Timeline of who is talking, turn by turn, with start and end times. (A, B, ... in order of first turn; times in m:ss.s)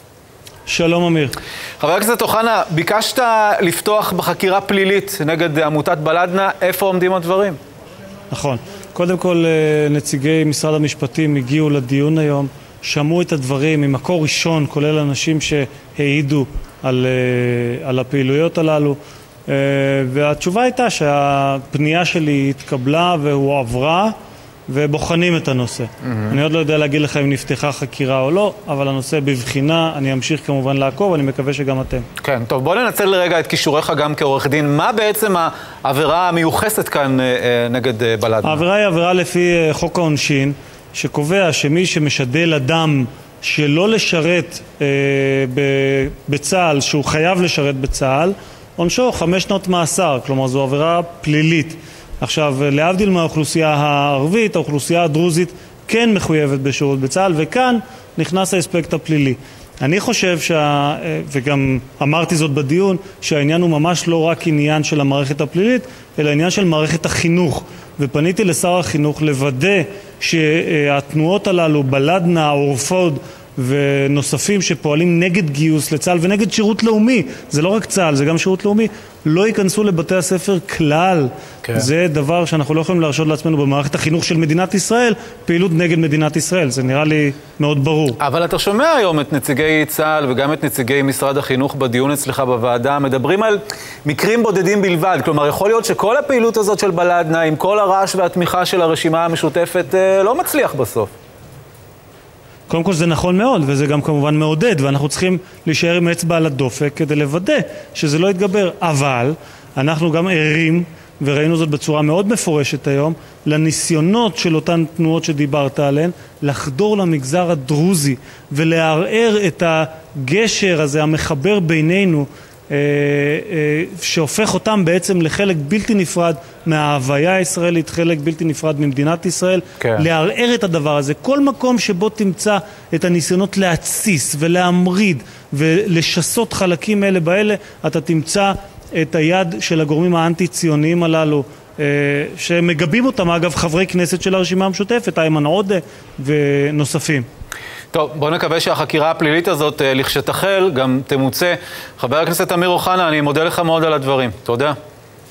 0:00.7-0:01.4 A
0:01.8-0:07.6 B
0:08.3-0:24.1 A
0:24.7-0:32.0 A
0:32.2-0:38.6 B
0:38.4-1:28.2 A
1:28.2-1:41.1 B
1:42.7-2:27.2 A
2:09.8-2:10.0 B
2:27.9-2:34.8 B